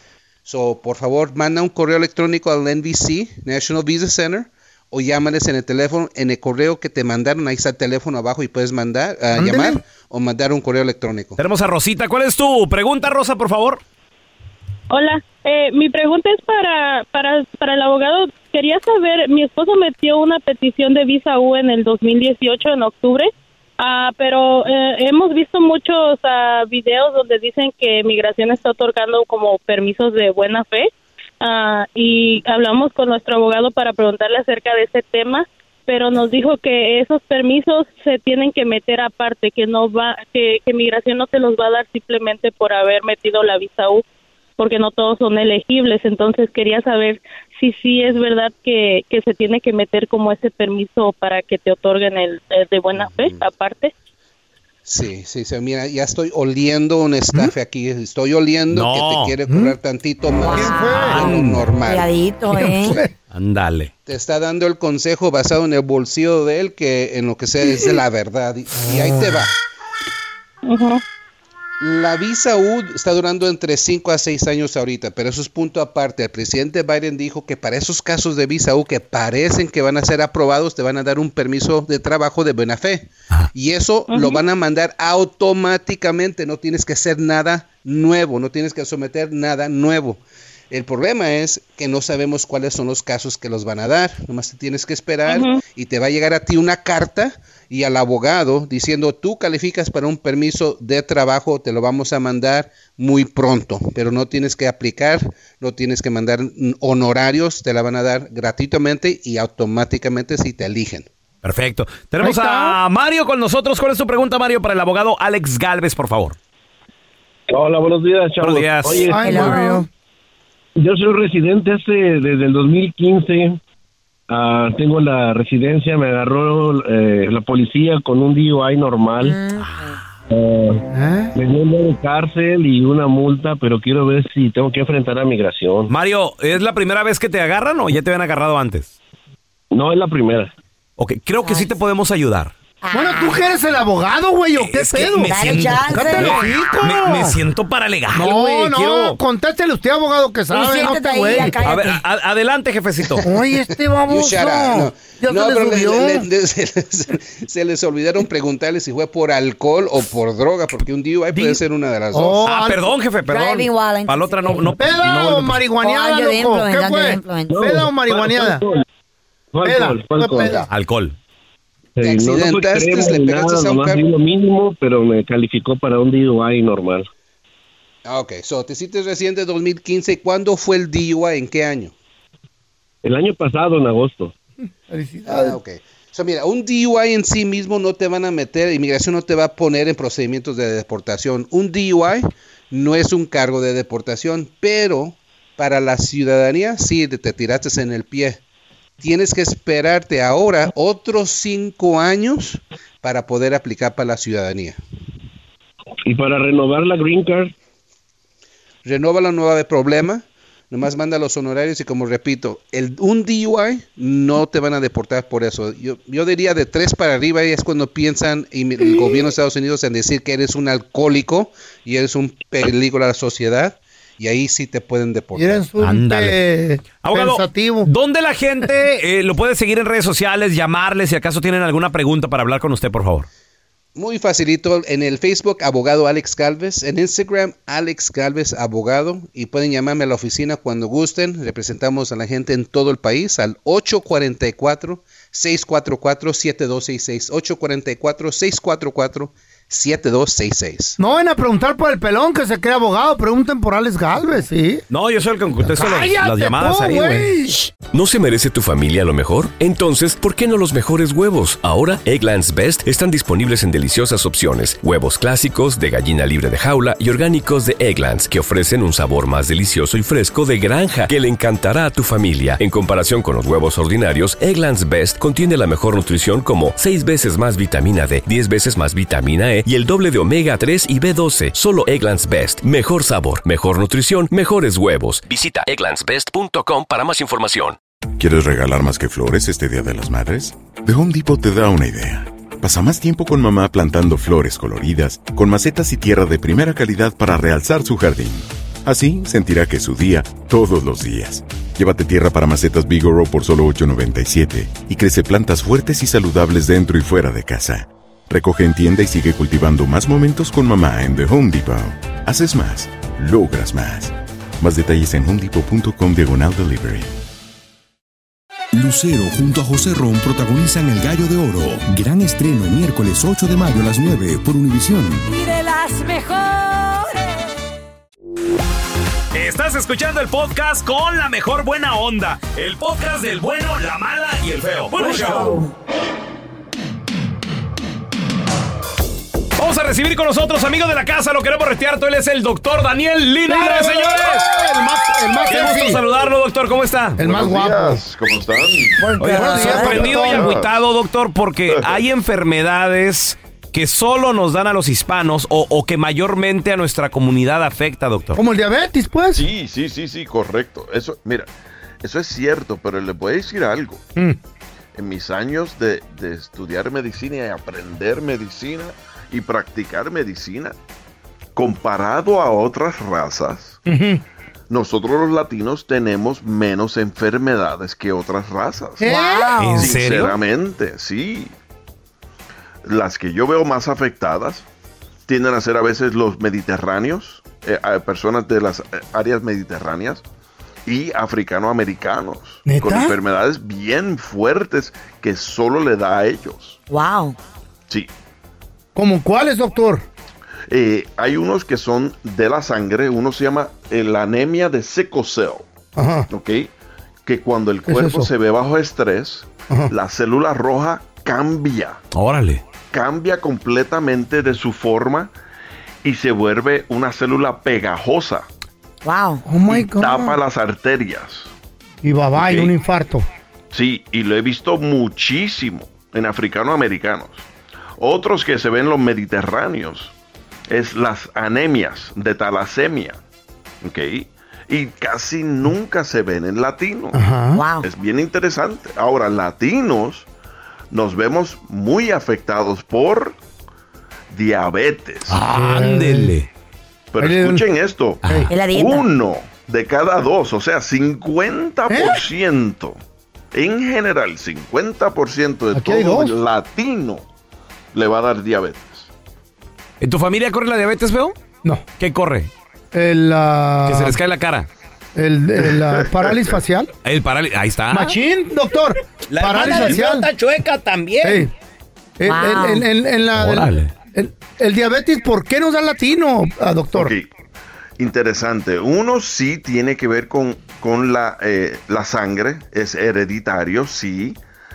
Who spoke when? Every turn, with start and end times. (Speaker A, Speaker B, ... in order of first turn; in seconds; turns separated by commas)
Speaker A: 0.4-11.4, Speaker B: 9.3-9.8, Speaker C: 11.4-13.8, Speaker D: 14.9-30.9, Speaker D: 31.4-44.0, Speaker D: 44.6-53.9, Speaker A: 52.9-53.3, Speaker A: 54.8-62.1, Speaker C: 58.7-59.4, Speaker B: 59.5-59.7, Speaker E: 60.4-61.2, Speaker B: 60.4-61.4, Speaker C: 61.0-61.6, Speaker E: 61.8-63.0, Speaker B: 62.5-63.1, Speaker C: 63.3-63.9, Speaker A: 64.1-69.5, Speaker B: 68.7-69.4, Speaker D: 70.7-71.0, Speaker A: 71.8-90.2, Speaker D: 84.1-84.4, Speaker A: 90.7-111.1, Speaker D: 95.3-95.6, Speaker C: 111.4-116.3, Speaker B: 112.2-112.8, Speaker F: 117.5-119.5, Speaker C: 118.4-119.0, Speaker B: 119.1-119.9, Speaker E: 119.2-119.9, Speaker F: 120.8-123.6, Speaker F: 124.3-129.4, Speaker E: 129.2-130.0, Speaker C: 129.5-130.1, Speaker F: 130.3-130.8, Speaker B: 130.9-131.3, Speaker F: 131.3-135.9, Speaker C: 135.9-138.9, Speaker F: 139.7-140.5, Speaker C: 141.0-142.5, Speaker E: 141.4-141.7, Speaker E: 142.8-143.4, Speaker B: 142.9-147.4, Speaker C: 144.5-149.2, Speaker E: 145.2-146.6, Speaker B: 148.1-151.6, Speaker E: 150.5-152.0, Speaker C: 151.6-153.3, Speaker B: 153.2-156.3, Speaker A: 154.1-162.4, Speaker C: 161.3-161.6, Speaker B: 162.1-162.9, Speaker C: 162.4-165.7, Speaker E: 163.3-164.8, Speaker B: 164.8-168.6, Speaker E: 165.7-167.6, Speaker F: 167.5-168.8, Speaker F: 169.5-170.6, Speaker B: 169.6-170.7, Speaker C: 170.7-171.1, Speaker F: 172.0-177.1, Speaker A: 172.0-174.0, Speaker A: 178.0-181.9, Speaker F: 183.0-184.3, Speaker B: 184.9-185.6, Speaker A: 185.2-198.4, Speaker A: 199.0-204.8, Speaker F: 206.0-207.5, Speaker A: 208.8-225.6, Speaker B: 225.3-227.9, Speaker C: 225.8-226.4, Speaker C: 227.0-233.3, Speaker A: 233.9-251.0, Speaker B: 251.0-254.8, Speaker C: 254.9-257.3, Speaker B: 255.6-257.7, Speaker G: 257.9-287.8, Speaker H: 288.2-317.1, Speaker I: 318.7-325.3, Speaker J: 325.3-327.4, Speaker C: 329.3-335.6, Speaker E: 335.0-335.7, Speaker C: 339.6-344.5, Speaker B: 343.5-346.0, Speaker C: 345.4-347.2, Speaker B: 347.2-348.0, Speaker K: 347.2-350.8, Speaker B: 349.0-350.5, Speaker C: 349.2-358.4, Speaker E: 349.4-350.1, Speaker K: 351.7-352.0, Speaker B: 358.4-359.5, Speaker K: 359.3-361.5, Speaker K: 362.0-364.0, Speaker K: 364.9-370.7, Speaker K: 371.5-373.8, Speaker B: 373.9-374.2, Speaker K: 374.7-379.2, Speaker B: 379.0-379.6, Speaker E: 379.1-379.9, Speaker C: 379.6-380.4, Speaker K: 379.8-381.5, Speaker K: 382.8-384.6, Speaker K: 385.3-390.2, Speaker K: 390.9-396.8, Speaker B: 392.6-393.1, Speaker E: 396.9-397.4, Speaker B: 398.9-400.1, Speaker K: 400.7-405.7, Speaker B: 405.9-406.3, Speaker K: 406.3-406.7, Speaker K: 407.2-412.0, Speaker B: 407.9-408.3, Speaker C: 412.1-412.6, Speaker K: 412.9-415.3, Speaker K: 416.0-418.5, Speaker E: 419.0-419.4, Speaker B: 419.4-420.4, Speaker K: 419.7-421.5, Speaker B: 422.0-423.3, Speaker K: 422.4-422.7, Speaker K: 423.7-427.4, Speaker K: 428.0-430.1, Speaker K: 430.7-433.2, Speaker K: 433.8-437.2, Speaker B: 437.1-437.7, Speaker E: 437.5-437.9, Speaker K: 437.8-440.3, Speaker K: 440.9-443.4, Speaker K: 444.3-445.4, Speaker C: 445.3-446.5, Speaker B: 445.4-446.3, Speaker K: 447.1-453.0, Speaker B: 447.2-447.6, Speaker C: 448.2-448.5, Speaker E: 448.5-449.1, Speaker B: 451.9-452.2, Speaker K: 453.5-457.2, Speaker B: 455.7-456.4, Speaker K: 457.9-459.1, Speaker C: 460.0-461.4, Speaker C: 462.0-462.5, Speaker B: 462.9-464.2, Speaker C: 463.9-464.7, Speaker B: 465.1-466.9, Speaker K: 465.7-466.5, Speaker C: 467.0-468.1, Speaker B: 467.9-470.3, Speaker C: 469.3-471.5, Speaker B: 471.2-471.5, Speaker B: 472.2-477.1, Speaker E: 472.2-472.9, Speaker C: 473.3-473.9, Speaker K: 476.9-477.3, Speaker K: 478.0-484.4